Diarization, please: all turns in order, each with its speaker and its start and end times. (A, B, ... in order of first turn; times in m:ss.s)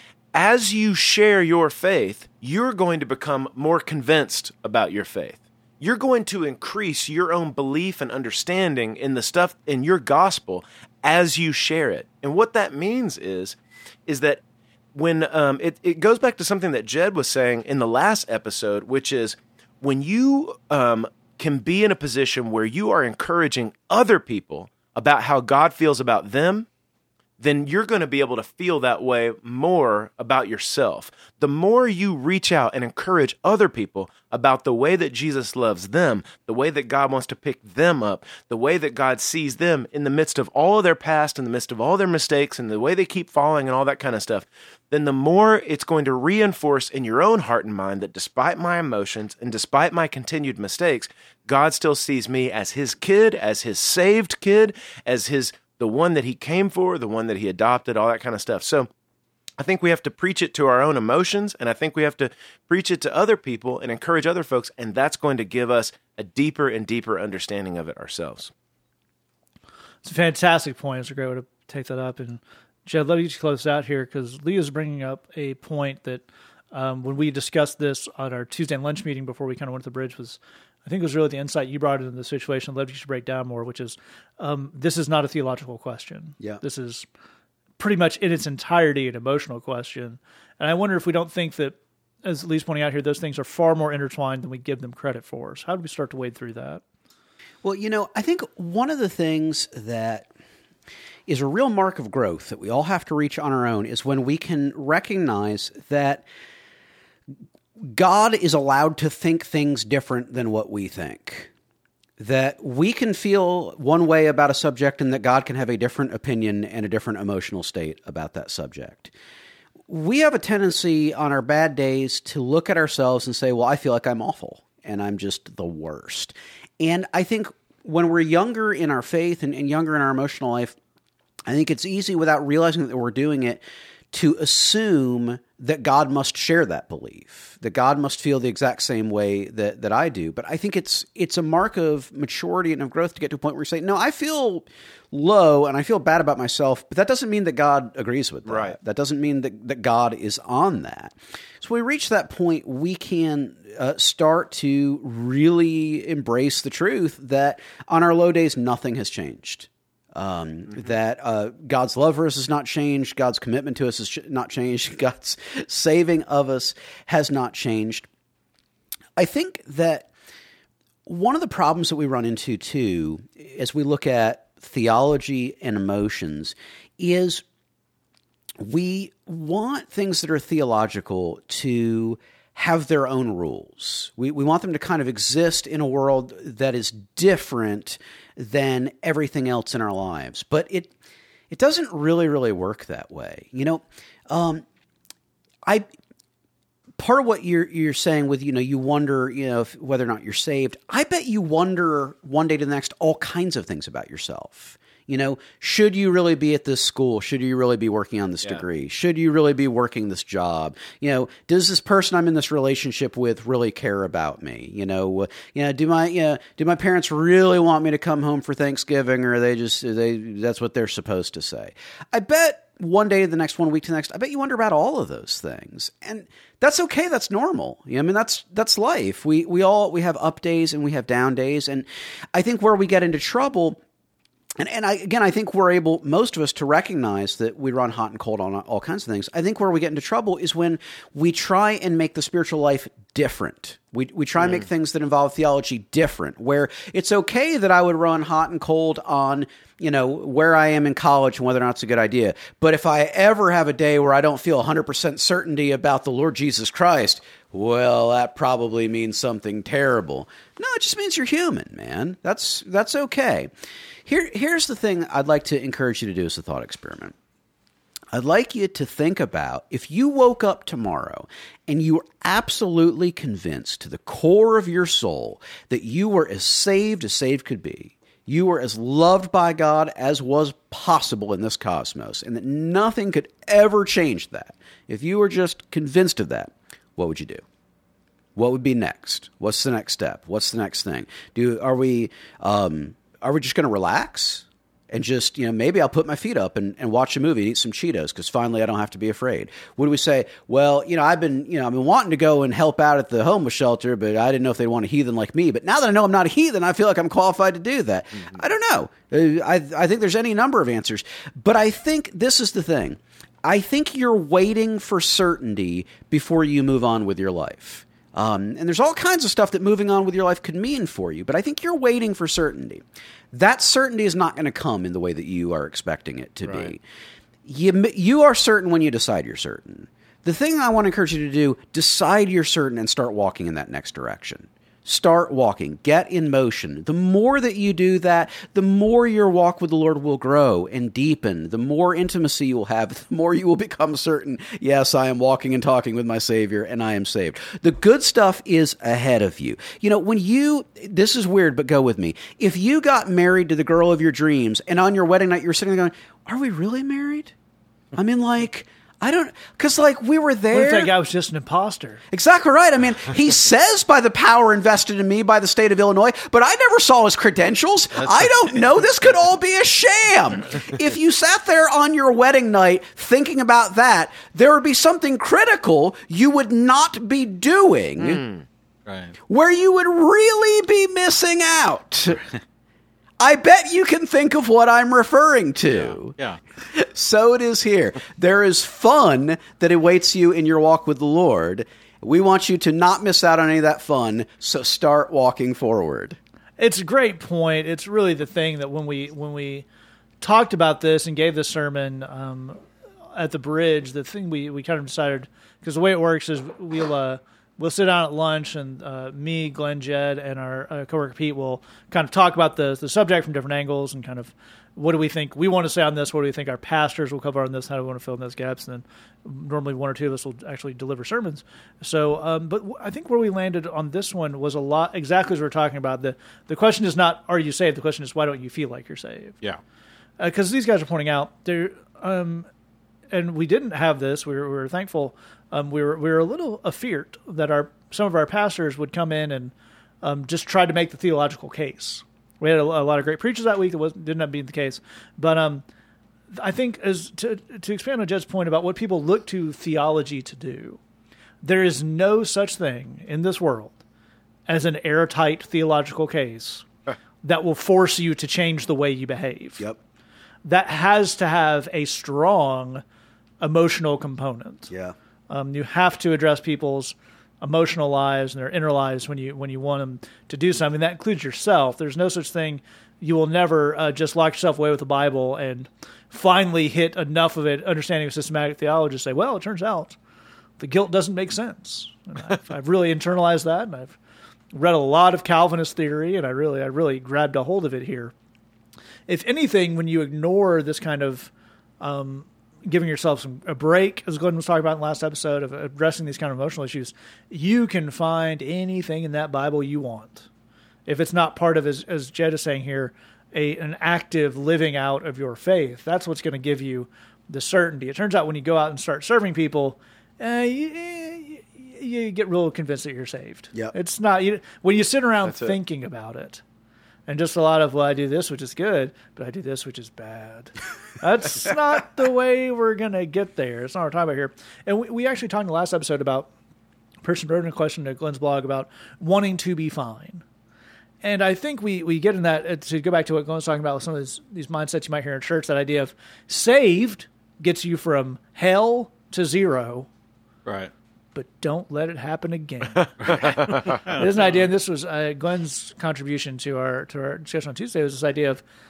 0:00.3-0:14.4 A
0:14.9-0:26.7 A
0:27.4-0:58.9 A
0:59.6-1:08.5 A
1:10.0-1:27.1 B
1:27.8-1:36.8 B
1:37.6-1:40.3 C
1:41.3-1:46.2 C
1:47.9-1:51.5 C
1:52.2-1:59.1 C
1:59.9-2:10.8 C
2:11.5-2:48.1 C
2:28.5-2:28.8 A
2:49.2-2:50.1 C
2:51.1-2:57.4 C
2:58.6-3:10.9 C
3:11.5-3:14.6 C
3:17.0-3:53.8 C
3:54.6-4:23.5 C
4:24.1-4:27.2 C
4:28.1-4:47.4 C
4:48.4-5:26.8 C
5:26.5-5:26.7 A
5:27.4-5:57.3 C
5:57.9-6:00.9 C
6:00.5-6:02.0 B
6:02.1-6:18.2 C
6:18.0-6:18.4 A
6:18.9-6:19.2 D
6:19.3-6:22.2 C
6:23.2-6:26.1 C
6:25.7-6:26.4 D
6:26.7-6:36.2 C
6:36.6-6:39.6 B
6:40.2-6:42.6 B
6:43.2-7:09.4 B
7:10.2-7:12.5 B
7:13.1-7:25.6 B
7:26.3-7:30.8 B
7:31.4-7:33.8 B
7:34.5-7:36.7 B
7:37.2-7:39.6 B
7:40.4-7:42.8 B
7:43.4-7:44.7 B
7:44.7-7:45.0 C
7:45.3-8:00.0 B
8:00.6-8:04.0 B
8:04.5-8:08.1 B
8:09.1-8:20.3 B
8:20.9-8:36.4 B
8:35.2-8:35.6 A
8:37.1-8:46.3 B
8:47.0-8:50.2 B
8:51.0-8:59.9 B
9:00.5-9:00.7 D
9:01.2-9:08.4 B
9:03.1-9:04.0 D
9:03.1-9:03.7 A